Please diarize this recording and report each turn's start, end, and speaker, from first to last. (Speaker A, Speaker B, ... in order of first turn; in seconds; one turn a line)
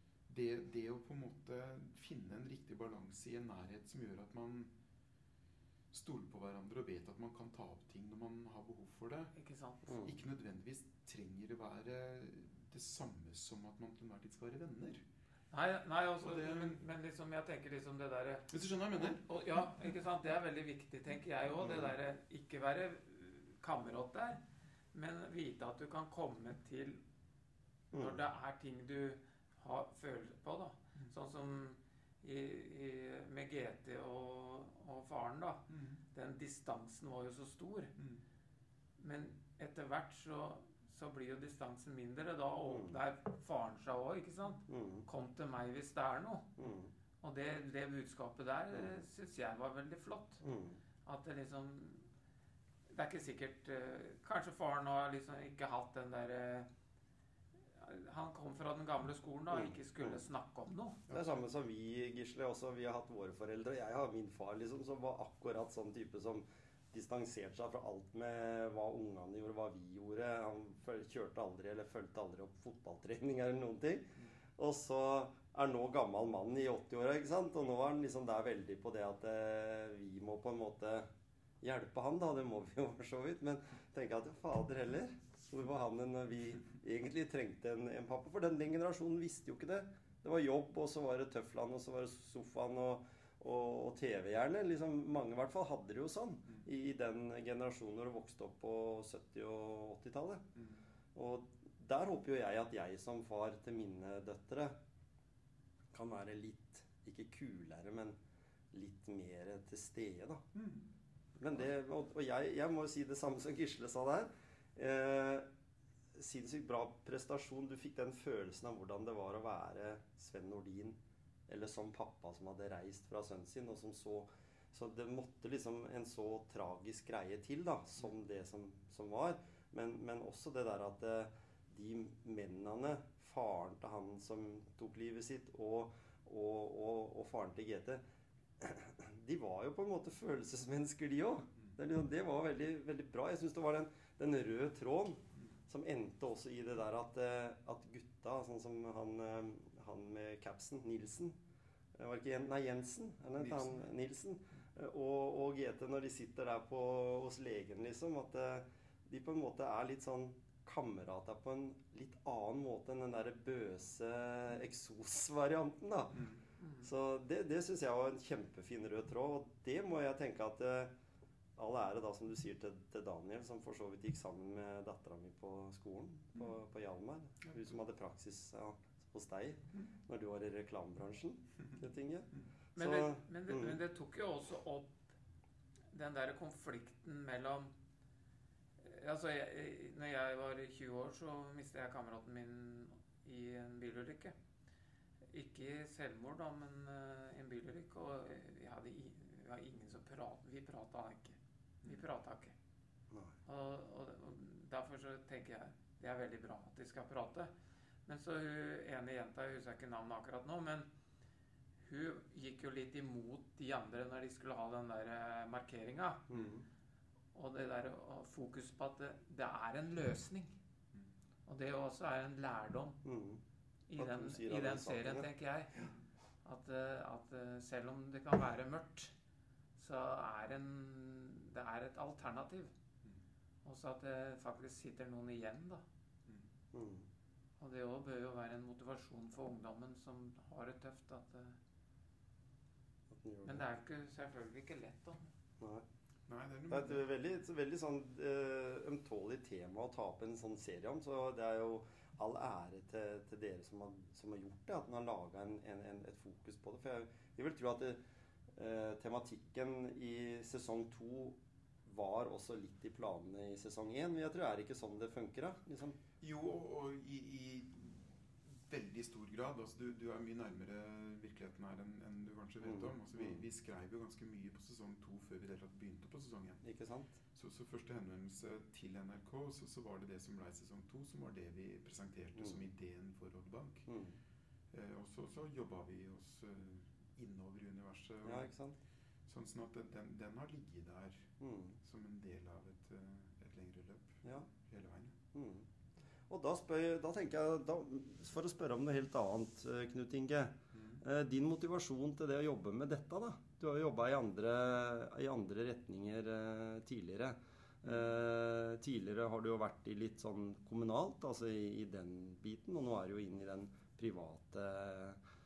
Speaker A: 0.3-4.7
Speaker A: 5.9-9.3
Speaker B: 9.3-10.0
Speaker C: 9.9-10.2
Speaker A: 10.0-15.0
Speaker B: 15.5-24.4
Speaker A: 16.2-16.8
Speaker A: 18.5-19.6
Speaker C: 21.6-21.9
Speaker B: 24.9-27.0
Speaker C: 27.9-28.2
Speaker B: 27.9-37.9
Speaker A: 35.7-36.0
Speaker A: 38.0-38.2
Speaker B: 39.0-46.5
Speaker C: 42.7-43.0
Speaker C: 44.7-45.0
Speaker C: 46.6-46.9
Speaker B: 47.2-50.4
Speaker C: 50.4-50.8
Speaker B: 51.0-52.0
Speaker B: 52.9-56.7
Speaker B: 57.8-61.2
Speaker C: 59.5-60.2
Speaker A: 61.1-61.4
Speaker C: 61.1-81.1
Speaker C: 81.6-100.4
Speaker A: 100.5-100.8
Speaker C: 101.1-104.8
Speaker C: 105.9-108.2
Speaker C: 108.7-110.4
Speaker A: 110.5-110.9
Speaker C: 111.4-115.5
Speaker C: 116.1-138.0
Speaker C: 138.6-151.4
Speaker C: 151.9-166.2
Speaker A: 153.4-153.8
Speaker A: 166.1-166.4
Speaker B: 166.6-166.9
Speaker C: 166.8-170.9
Speaker C: 171.6-183.8
Speaker B: 182.8-185.1
Speaker B: 185.9-187.7
Speaker B: 188.8-194.3
Speaker B: 195.3-202.5
Speaker C: 203.1-203.3
Speaker B: 203.4-207.5
Speaker B: 208.1-210.9
Speaker B: 211.8-216.3
Speaker C: 216.3-216.7
Speaker B: 217.3-220.6
Speaker B: 221.4-223.0
Speaker C: 223.0-223.4
Speaker B: 223.9-225.9
Speaker C: 223.9-225.3
Speaker B: 226.4-229.1
Speaker B: 229.8-232.7
Speaker B: 233.6-235.8
Speaker C: 236.7-237.1
Speaker B: 237.6-241.6
Speaker C: 243.1-243.6
Speaker B: 243.4-245.3
Speaker C: 245.6-245.8
Speaker A: 246.3-247.1
Speaker C: 246.7-258.0
Speaker C: 258.5-266.0
Speaker A: 266.2-276.6
Speaker C: 272.6-273.4
Speaker C: 276.6-277.2
Speaker A: 277.3-283.9
Speaker C: 282.4-282.6
Speaker C: 283.9-284.2
Speaker A: 284.7-288.5
Speaker C: 288.2-288.8
Speaker A: 289.3-295.2
Speaker C: 291.4-291.8
Speaker C: 295.3-295.7
Speaker C: 296.3-315.2
Speaker A: 300.7-301.0
Speaker A: 307.8-308.1